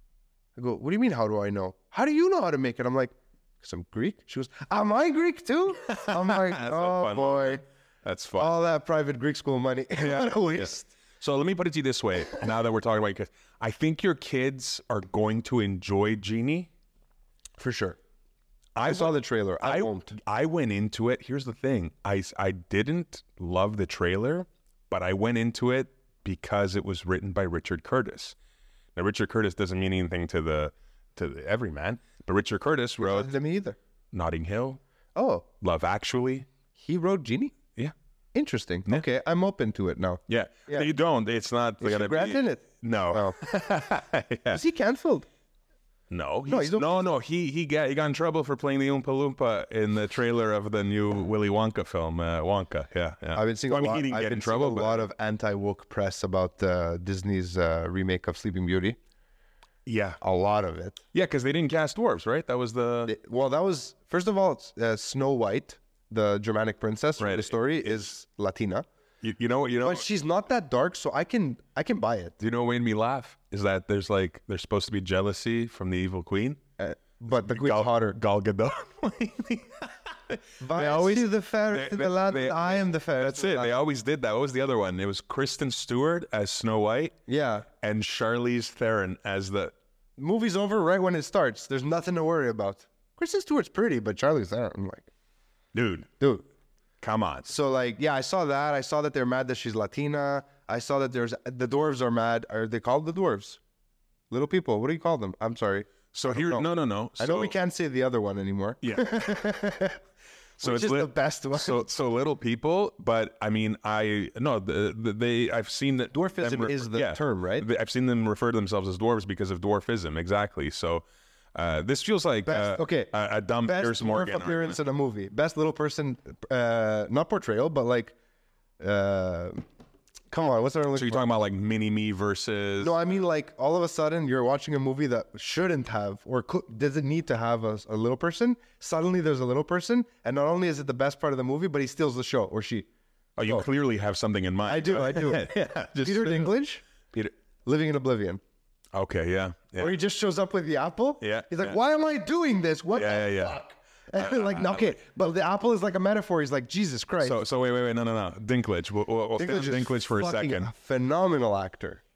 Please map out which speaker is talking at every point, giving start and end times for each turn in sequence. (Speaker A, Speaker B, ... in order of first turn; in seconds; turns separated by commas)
Speaker A: 0.6-7.6, Speaker B: 5.9-8.5, Speaker A: 8.4-10.9, Speaker B: 10.0-16.7, Speaker A: 17.6-18.0, Speaker B: 18.8-28.4, Speaker A: 18.8-20.2, Speaker B: 29.0-33.3, Speaker A: 33.0-33.8, Speaker B: 34.1-34.8, Speaker A: 35.2-35.5, Speaker B: 35.6-36.5, Speaker A: 36.8-37.5, Speaker A: 38.3-40.9, Speaker B: 40.3-44.6, Speaker A: 41.8-43.4, Speaker A: 44.5-45.2, Speaker B: 46.1-55.1, Speaker A: 46.5-47.0, Speaker A: 53.4-59.0, Speaker B: 59.9-60.2, Speaker A: 60.2-61.0, Speaker B: 61.1-63.1, Speaker A: 63.0-68.9, Speaker B: 67.2-68.0, Speaker B: 69.2-70.0, Speaker A: 69.8-72.4, Speaker B: 72.4-76.6, Speaker A: 76.8-78.2, Speaker B: 77.4-87.1, Speaker A: 80.6-83.7, Speaker A: 87.3-87.7, Speaker B: 87.8-89.7, Speaker A: 90.2-95.1, Speaker B: 95.7-96.1, Speaker A: 96.2-96.5, Speaker B: 97.0-97.5, Speaker A: 97.5-103.6, Speaker A: 104.3-106.7, Speaker B: 106.1-107.5, Speaker A: 107.2-110.0, Speaker B: 108.8-109.4, Speaker B: 110.6-121.0, Speaker A: 110.6-111.8, Speaker A: 116.1-117.7, Speaker B: 121.5-124.8, Speaker A: 122.5-123.1, Speaker A: 123.6-128.1, Speaker A: 128.8-129.6, Speaker A: 130.3-131.2, Speaker B: 130.9-132.9, Speaker A: 132.8-142.9, Speaker B: 143.4-146.5, Speaker A: 144.7-146.8, Speaker A: 147.6-148.4, Speaker B: 148.9-149.9, Speaker A: 149.8-157.4, Speaker B: 151.2-151.8, Speaker B: 152.9-153.6, Speaker B: 154.2-154.9, Speaker B: 157.2-160.7, Speaker A: 159.4-162.0